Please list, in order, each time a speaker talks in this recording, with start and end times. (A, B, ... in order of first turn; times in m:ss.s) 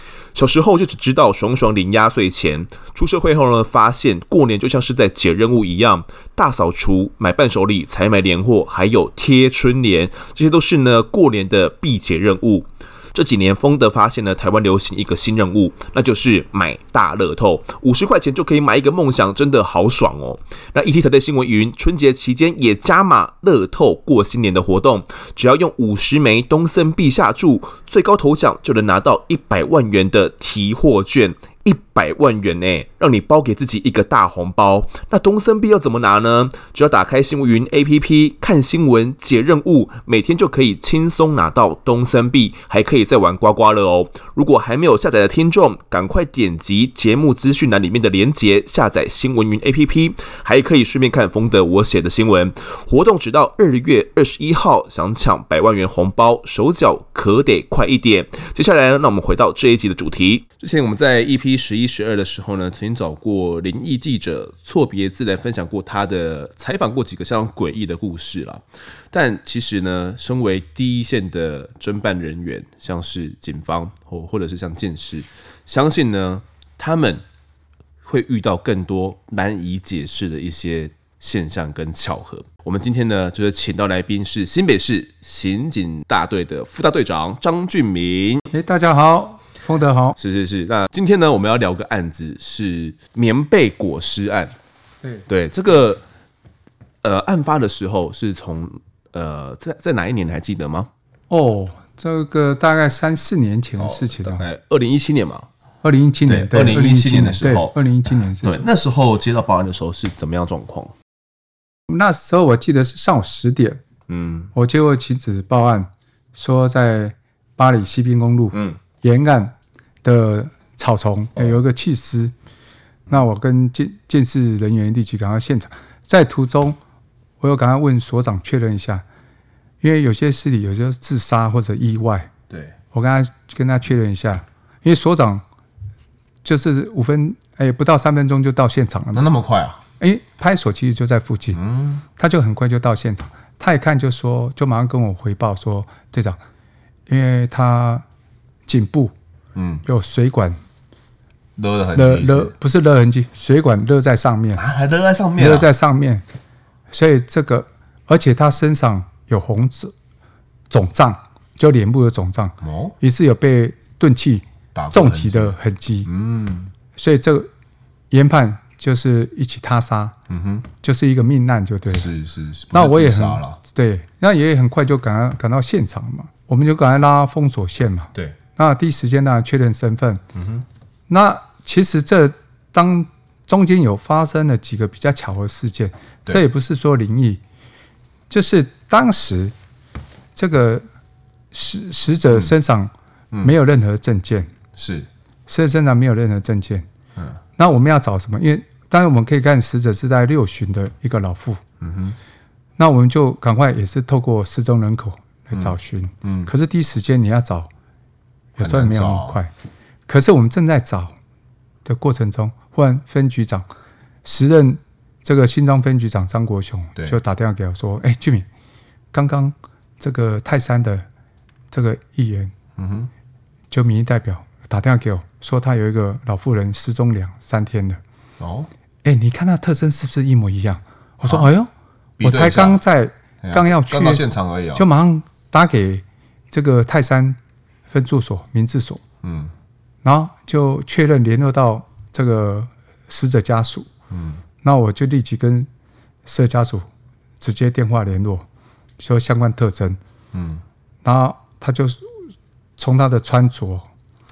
0:00.3-1:17.2 A
1:18.0-1:28.5 A
1:28.5-1:30.2 B
1:30.2-1:34.5 A
1:35.3-1:36.0 A
1:37.0-1:40.9 A
1:41.3-1:44.4 B
1:43.8-1:45.5 A
1:45.8-1:48.6 B
1:46.2-1:50.9 A
1:51.9-1:53.8 B
1:54.1-1:54.5 A
1:54.5-2:02.3 B
1:58.5-1:58.8 A
2:03.1-2:06.8 B
2:07.4-2:09.0 B
2:09.8-2:12.3 B
2:12.5-2:12.7 A
2:12.9-2:15.4 B
2:16.4-2:19.3 B
2:19.1-2:19.8 A
2:20.0-2:21.6 B
2:21.5-2:22.0 A
2:22.2-2:26.4 B
2:27.1-2:28.0 B
2:28.7-2:29.1 B
2:29.5-2:29.8 A
2:29.8-2:30.6 B
2:31.6-2:32.5 A
2:31.9-2:34.6 B
2:34.5-2:35.7 A
2:35.4-2:36.2 B
2:36.9-2:39.9 B
2:40.7-2:46.1 B
2:42.6-2:43.0 A
2:44.7-2:46.7 A
2:47.0-2:47.5 B
2:48.1-2:50.1 B
2:50.3-2:50.7 A
2:50.8-2:52.1 B
2:51.9-2:53.6 A
2:52.7-3:00.2 B
3:00.3-3:00.6 A
3:01.1-3:07.4 B
3:08.3-3:09.5 B
3:10.3-3:10.8 B
3:11.5-3:14.5 B
3:14.8-3:15.1 A
3:15.5-3:16.8 B
3:17.6-3:21.6 B
3:21.8-3:22.2 A
3:22.8-3:27.7 B
3:25.5-3:26.5 A
3:28.6-3:29.5 B
3:28.6-3:29.4 A
3:30.1-3:31.1 B
3:31.8-3:33.6 B
3:34.2-3:38.5 B
3:39.1-3:41.0 B
3:41.7-3:42.5 B
3:42.8-3:43.1 A
3:43.7-3:48.0 B
3:48.4-3:48.7 A
3:49.0-3:51.7 B
3:51.2-3:51.5 A
3:52.2-3:52.8 A
3:52.2-3:57.4 B
3:53.4-3:54.8 A
3:57.9-3:59.0 B
3:59.2-3:59.5 A
4:00.0-4:03.9 B
4:04.1-4:04.4 A
4:04.6-4:05.7 B
4:06.2-4:06.9 B
4:07.4-4:08.4 B
4:09.0-4:10.0 B
4:10.3-4:10.6 A
4:11.0-4:12.2 B
4:12.8-4:13.9 B